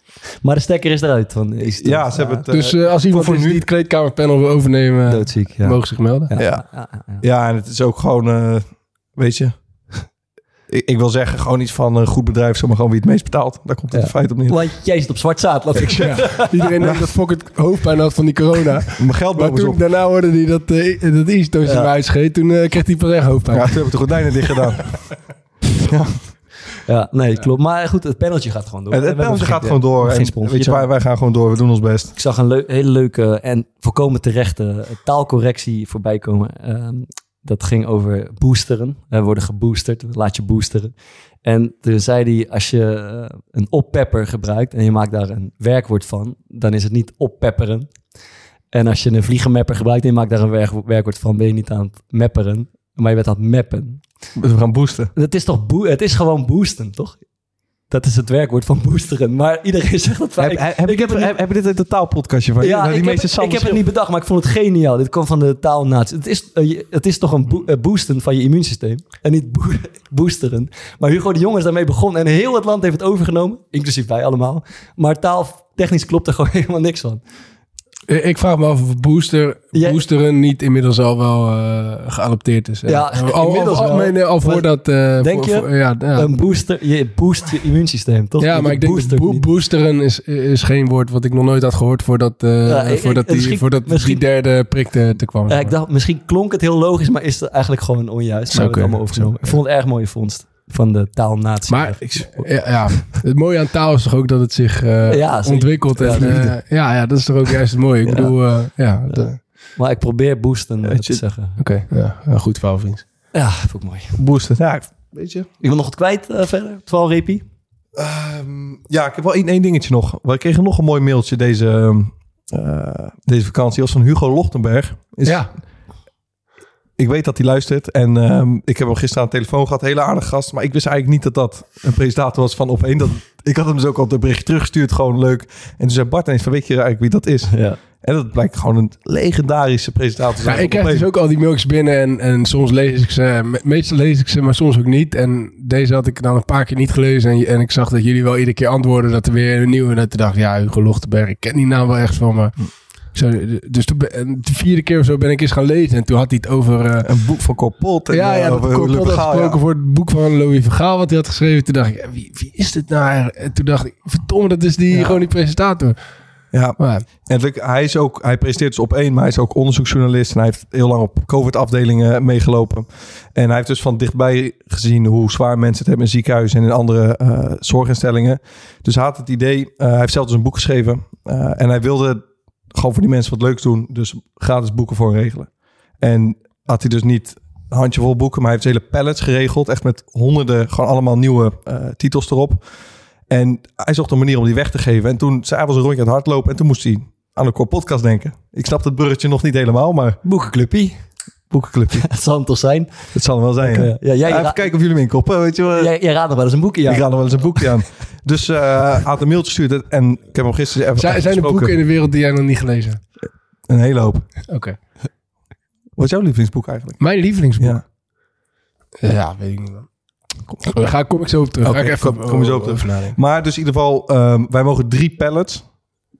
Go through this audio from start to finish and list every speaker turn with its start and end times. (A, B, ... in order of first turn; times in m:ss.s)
0:00.4-0:02.6 A
0:01.6-0:03.7 B
0:02.5-0:06.3 C
0:05.1-0:07.2 A
0:06.4-0:10.1 B
0:10.7-0:14.7 B
0:13.9-0:16.7 A
0:15.8-0:17.1 B
0:16.0-0:24.0 C
0:19.0-0:19.8 B
0:21.6-0:21.9 A
0:23.5-0:25.2 B
0:25.7-0:26.2 B
0:26.8-0:30.9 A
0:28.9-0:32.1 B
0:32.2-0:48.2 A
0:48.7-0:54.3 A
0:54.4-0:55.1 B
0:55.2-0:57.3 A
0:57.9-1:01.3 A
1:00.4-1:03.8 B
1:02.6-1:17.2 A
1:18.1-1:26.4 C
1:19.7-1:20.0 A
1:22.9-1:29.5 A
1:28.4-1:35.8 C
1:32.6-1:34.2 A
1:35.5-1:43.0 A
1:38.5-1:39.3 C
1:39.1-1:39.6 B
1:41.7-1:49.4 C
1:42.0-1:42.3 B
1:45.1-1:46.6 A
1:46.1-1:46.4 B
1:48.0-1:48.3 B
1:49.1-1:51.6 A
1:50.8-1:51.2 B
1:51.6-1:53.0 C
1:53.3-1:54.2 A
1:54.2-1:55.5 B
1:55.6-1:57.4 A
1:58.0-2:05.6 B
2:05.2-2:05.5 C
2:07.0-2:21.1 B
2:17.5-2:17.8 A
2:20.4-2:37.1 C
2:37.0-2:39.6 B
2:38.1-2:46.0 C
2:44.9-2:45.3 B
2:46.5-3:20.2 B
2:46.8-2:47.1 C
3:20.2-3:21.2 A
3:21.5-3:22.1 B
3:22.0-3:25.1 A
3:23.1-3:26.1 B
3:25.8-3:27.8 A
3:26.9-3:31.8 B
3:31.0-3:33.0 C
3:33.2-3:34.5 B
3:34.5-3:34.8 C
3:36.0-3:37.8 B
3:37.0-3:37.9 C
3:39.0-3:43.2 C
3:41.6-3:45.7 B